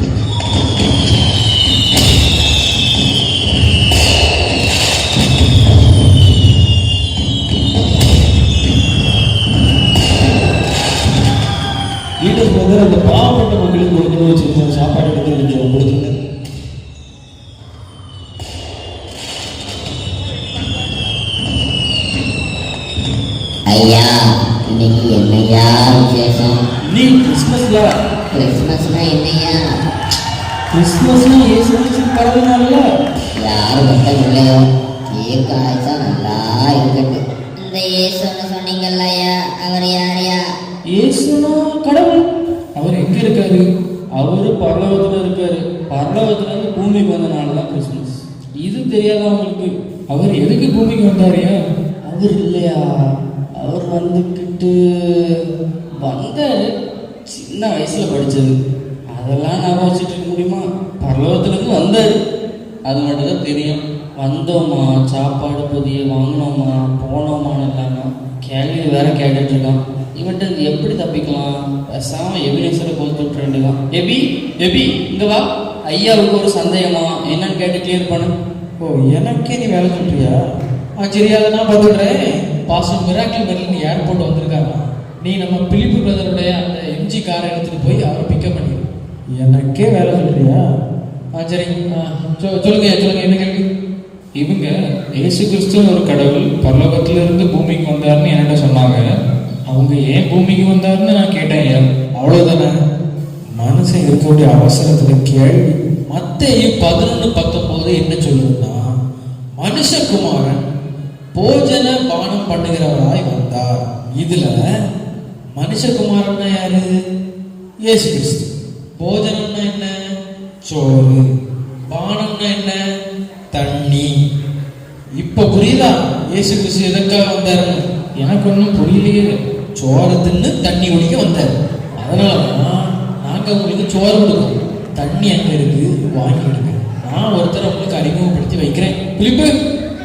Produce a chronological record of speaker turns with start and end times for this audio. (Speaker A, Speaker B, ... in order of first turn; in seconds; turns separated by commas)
Speaker A: 12.2-16.1, Speaker B: 23.7-26.6, Speaker C: 26.8-27.9, Speaker B: 28.3-29.8, Speaker C: 30.7-32.8, Speaker B: 33.4-40.5, Speaker C: 40.9-42.2, Speaker D: 42.8-43.6, Speaker C: 44.2-49.7, Speaker D: 50.1-51.6, Speaker C: 52.1-52.8, Speaker C: 53.6-54.7, Speaker C: 56.0-56.6, Speaker C: 57.3-58.5, Speaker C: 59.1-62.2, Speaker C: 62.9-78.3, Speaker E: 78.8-80.4, Speaker E: 81.0-90.6, Speaker E: 91.3-93.6, Speaker D: 94.4-99.0, Speaker D: 99.7-101.8, Speaker E: 102.2-102.8, Speaker E: 103.6-108.8, Speaker E: 109.6-110.6, Speaker E: 111.3-114.6, Speaker E: 115.5-116.9, Speaker E: 117.8-118.4, Speaker E: 119.0-119.9, Speaker E: 120.7-121.2, Speaker E: 121.9-122.8, Speaker E: 123.5-124.1, Speaker E: 125.2-127.8, Speaker D: 128.2-129.3, Speaker E: 129.8-139.5